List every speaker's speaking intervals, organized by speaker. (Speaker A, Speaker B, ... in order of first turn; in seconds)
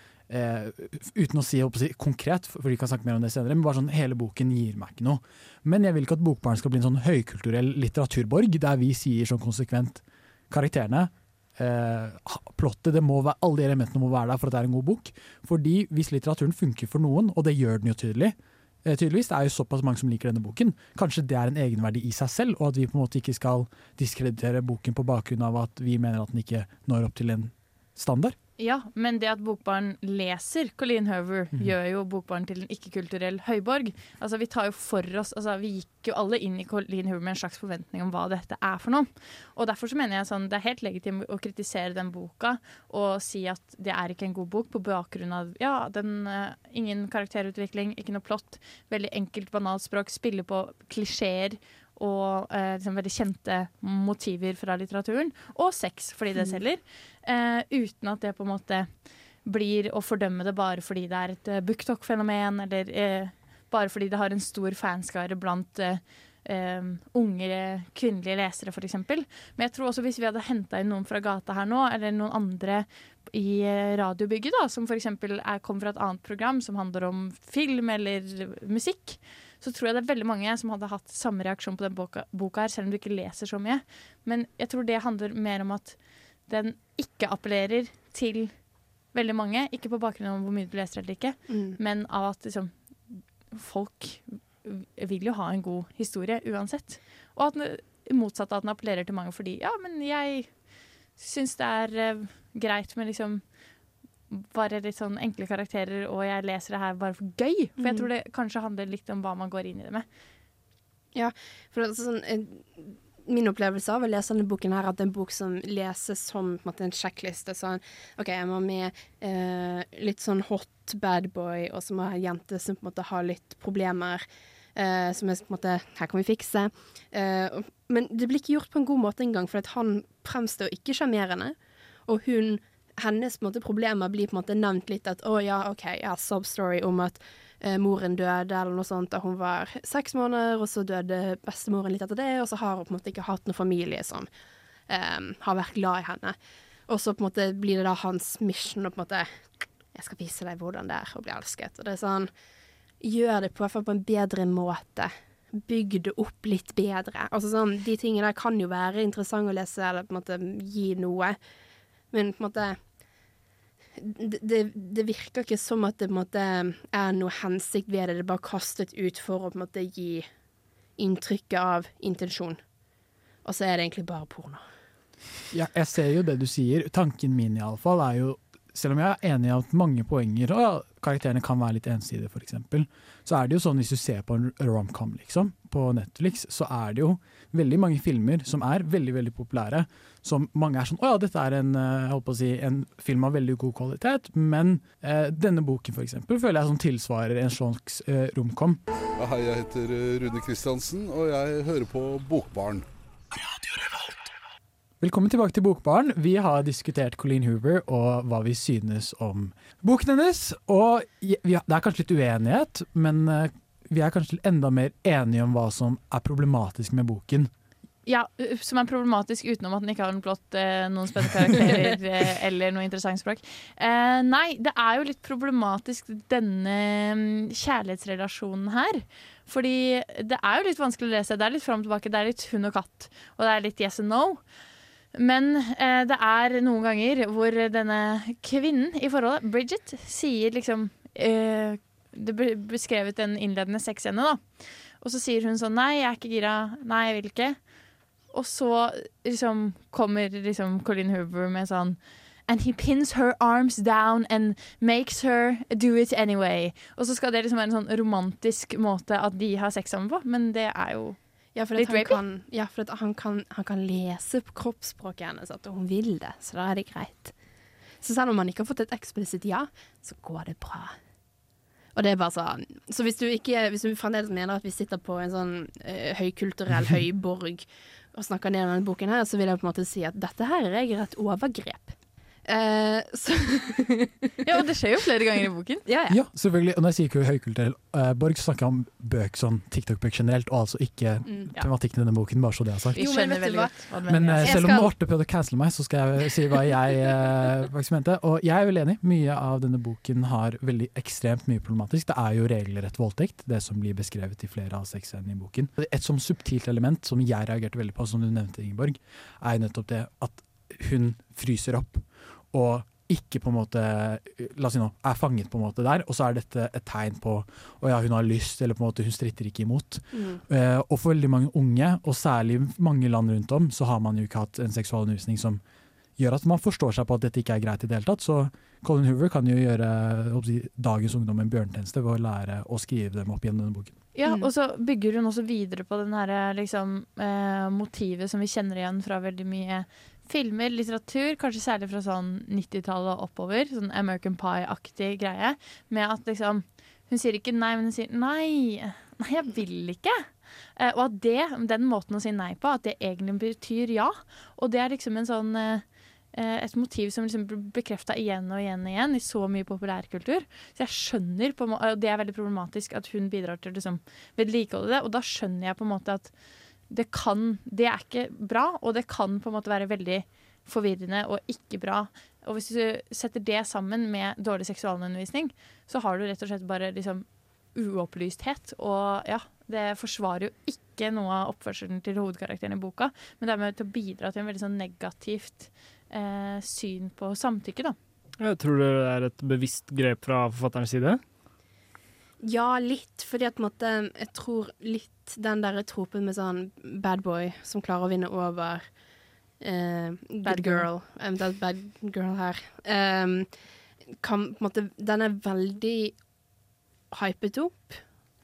Speaker A: 0.3-28.4, 175.5-198.8, 203.8-204.1, 205.0-217.5, 286.1-293.3, 294.1-325.6, 326.2-334.0
Speaker B: 28.6-58.9, 59.4-86.0, 86.5-88.5, 89.1-100.6, 101.2-103.4, 104.3-110.0, 218.1-234.4, 235.1-247.6, 248.3-261.2, 261.8-262.2, 284.4-285.8, 292.9-294.6, 334.1-350.2, 350.8-366.3, 366.9-387.9, 400.4-400.9
Speaker C: 91.5-91.8, 107.8-108.1, 111.1-124.2, 124.8-131.5, 132.1-144.3, 144.9-146.3, 146.9-149.3, 149.9-152.3, 153.0-161.4, 162.1-162.8, 164.0-170.3, 171.0-172.6, 173.4-174.6, 261.5-267.3, 268.0-270.9, 271.9-281.9, 282.5-284.4, 285.9-286.2, 292.9-294.9, 320.1-320.4, 334.2-334.5, 392.4-398.8, 399.6-403.5, 404.2-406.2, 407.1-408.0
Speaker D: 199.2-202.8
Speaker E: 388.4-391.2